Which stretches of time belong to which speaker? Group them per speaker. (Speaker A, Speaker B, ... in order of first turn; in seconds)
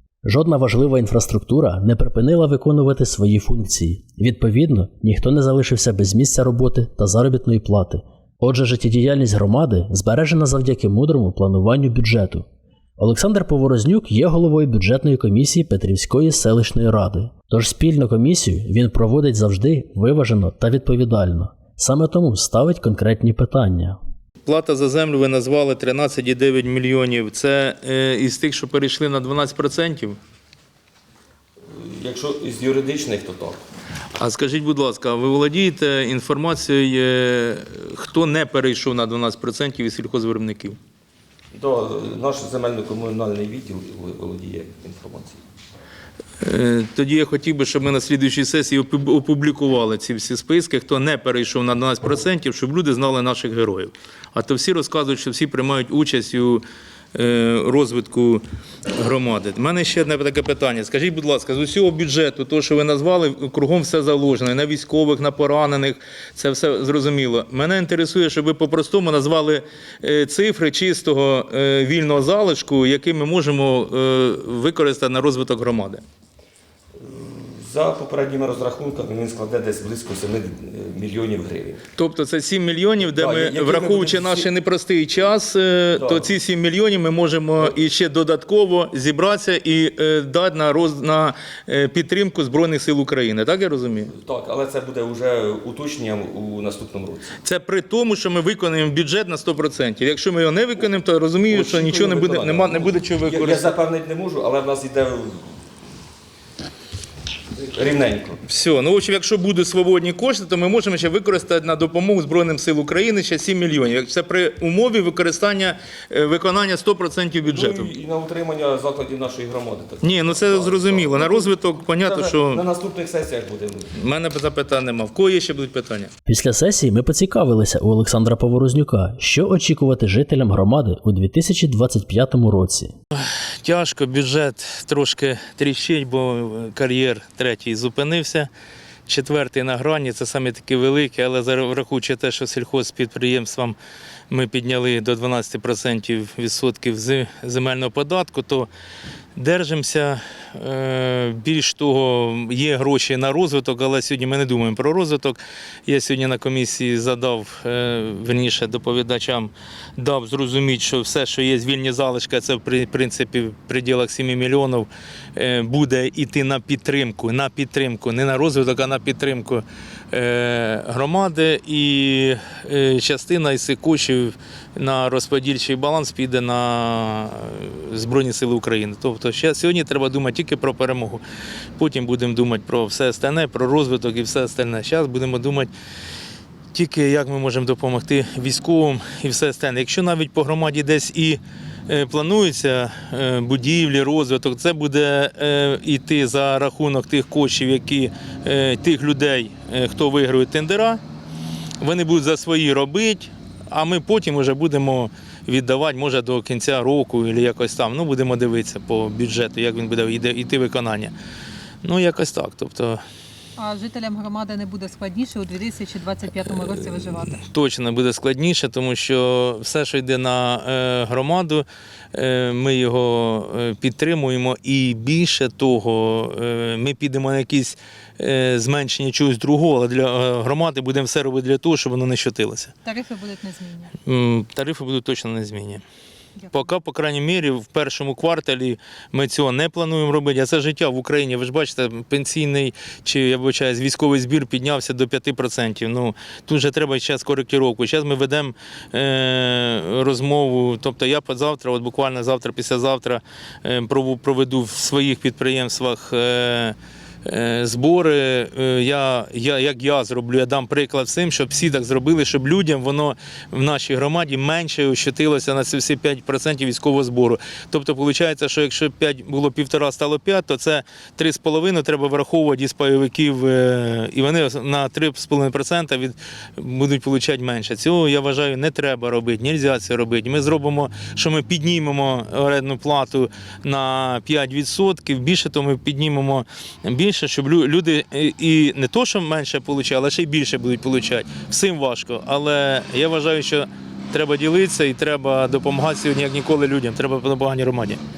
Speaker A: 0.2-12.5, 13.0-24.0, 126.3-132.9
Speaker B: 24.4-30.2, 34.2-40.8, 46.4-58.4, 59.0-76.0, 82.0-94.1, 97.4-103.7, 108.5-117.9, 120.0-122.6, 123.9-126.1, 133.6-138.5, 139.1-143.8, 144.3-148.7, 149.4-181.2, 181.8-185.7, 186.7-201.0, 201.8-211.1, 211.8-213.0, 216.5-232.7, 234.0-235.8, 236.5-298.0
Speaker C: 31.7-33.6, 41.5-45.4, 77.0-81.8, 83.0-84.5, 86.0-86.3, 94.1-97.3, 101.5-105.6, 107.6-108.4, 117.5-123.9
Speaker D: 213.6-217.4, 232.8-234.0